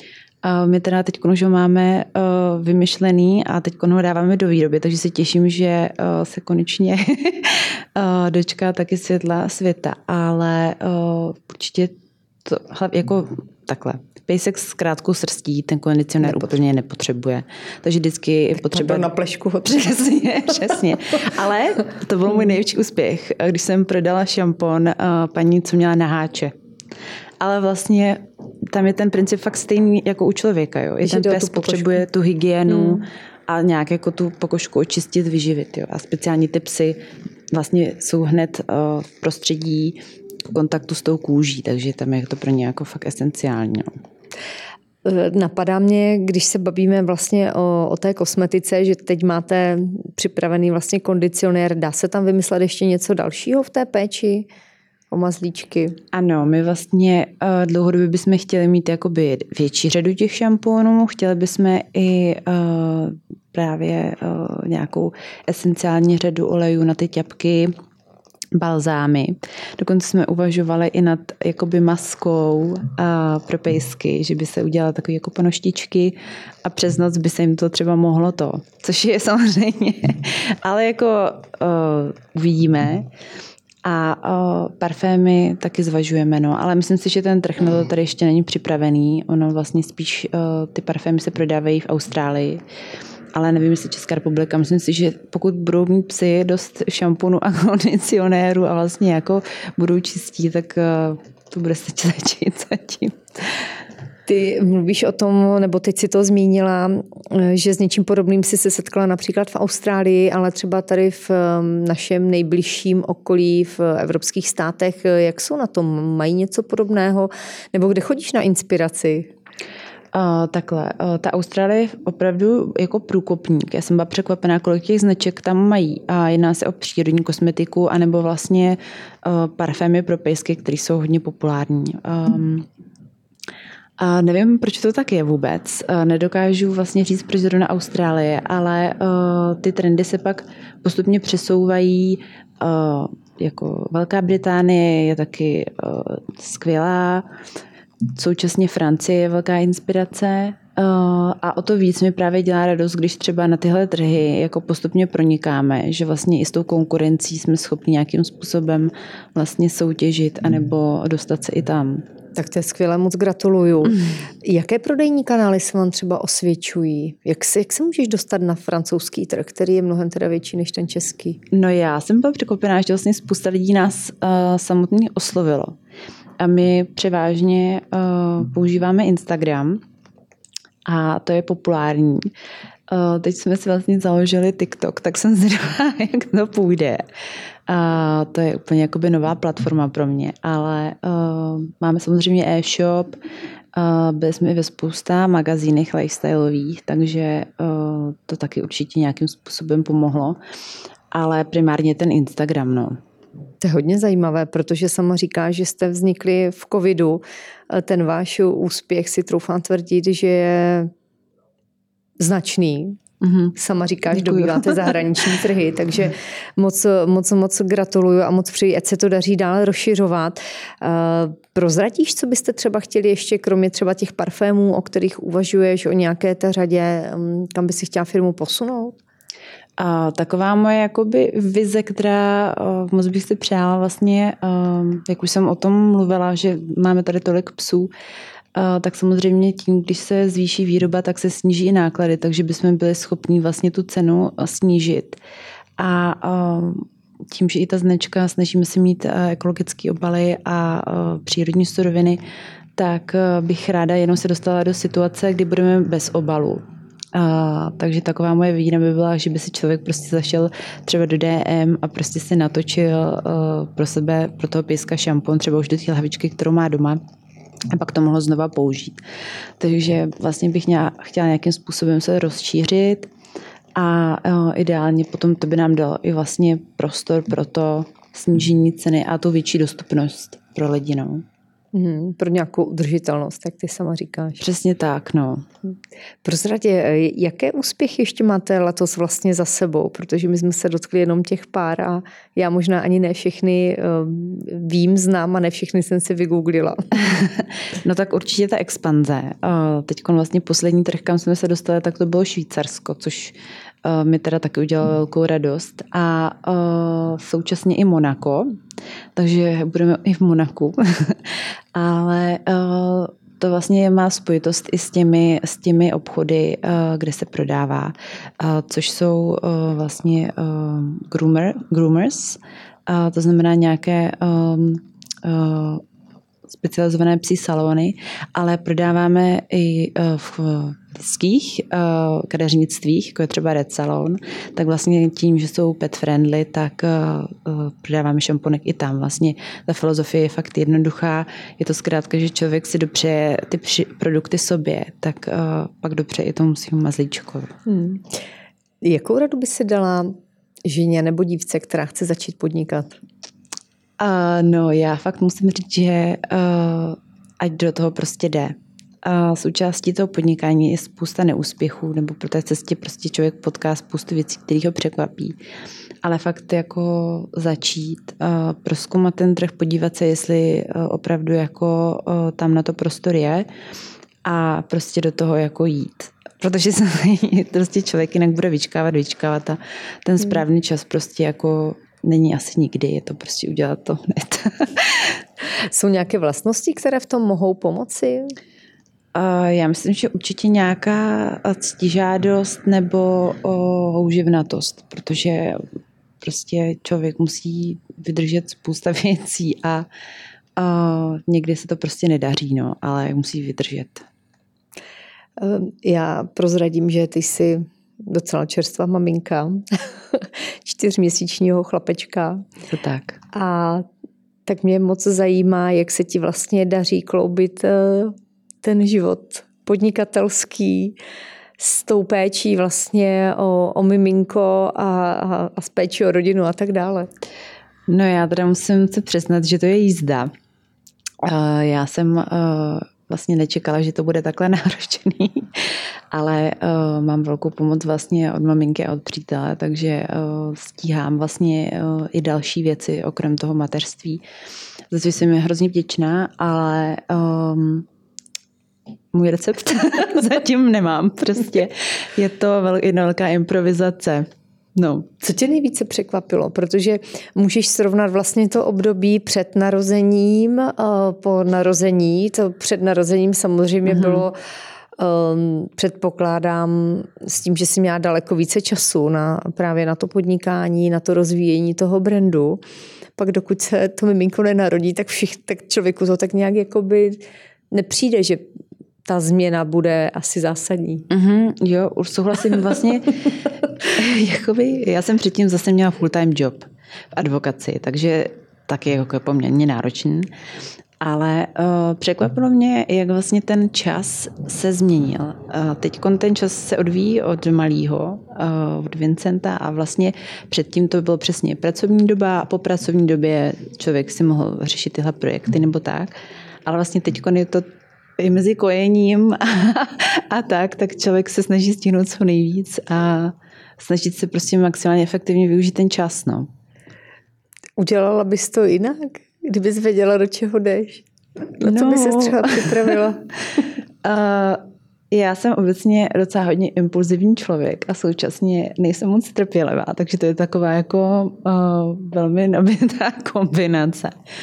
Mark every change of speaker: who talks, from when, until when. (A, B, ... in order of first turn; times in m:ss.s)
0:00.4-0:19.1 A
0:16.3-0:16.5 B
0:18.6-0:19.9 B
0:19.6-0:26.5 A
0:27.4-0:37.0 A
0:31.0-0:32.0 B
0:32.7-0:33.0 B
0:37.5-0:43.9 A
0:45.0-0:54.5 B
0:55.1-0:56.0 B
0:56.1-1:07.7 A
1:08.6-1:23.1 A
1:23.8-1:32.6 A
1:33.3-1:43.7 A
1:44.3-1:59.3 B
2:00.1-2:12.7 A
2:14.0-2:27.3 A
2:28.1-2:42.0 A
2:42.4-2:51.4 B
2:51.5-2:55.8 A
2:56.4-2:59.8 A
3:00.9-3:02.3 A
3:02.9-3:07.0 A
3:07.7-3:13.2 A
3:13.7-3:20.4 A
3:21.1-3:23.0 A
3:23.6-3:30.9 B
3:32.2-3:33.0 B
3:33.2-3:33.6 A
3:33.6-3:49.0 B
3:34.1-3:35.2 A
3:49.8-3:57.9 A
3:58.6-4:05.2 A
4:05.8-4:12.2 A
4:12.8-4:16.6 A
4:17.1-4:27.0 A
4:27.7-4:29.0 A
4:29.6-4:33.1 A
4:33.8-4:41.2 A
4:41.7-4:44.4 B
4:44.4-4:45.5 A
4:46.2-4:57.0 B
4:57.0-5:08.5 A
5:09.2-5:25.8 A
5:26.5-5:47.5 A
5:47.7-5:48.1 B
5:48.8-5:53.0 B
5:54.0-6:05.4 A
6:06.0-6:13.5 A
6:14.2-6:25.2 A
6:25.7-6:28.3 B
6:29.2-6:35.6 A
6:36.2-6:39.9 A
6:40.6-6:44.1 A
6:45.4-6:52.4 B
6:52.7-6:53.2 A
6:53.3-6:53.9 B
6:54.5-7:01.0 B
7:01.6-7:07.1 B
7:07.9-7:10.3 A
7:11.2-7:24.2 A
7:24.9-7:27.9 A
7:29.1-7:35.1 A
7:35.2-7:44.4 B
7:43.9-7:44.2 A
7:45.0-7:52.6 B
7:53.2-7:58.5 B
7:59.0-8:01.1 B
8:01.1-8:03.3 A
8:03.8-8:10.3 A
8:11.0-8:26.1 A
8:26.7-8:27.6 A
8:28.2-8:36.5 A
8:37.8-8:41.1 B
8:41.6-8:43.3 B
8:41.6-8:43.0 A
8:44.0-8:54.2 A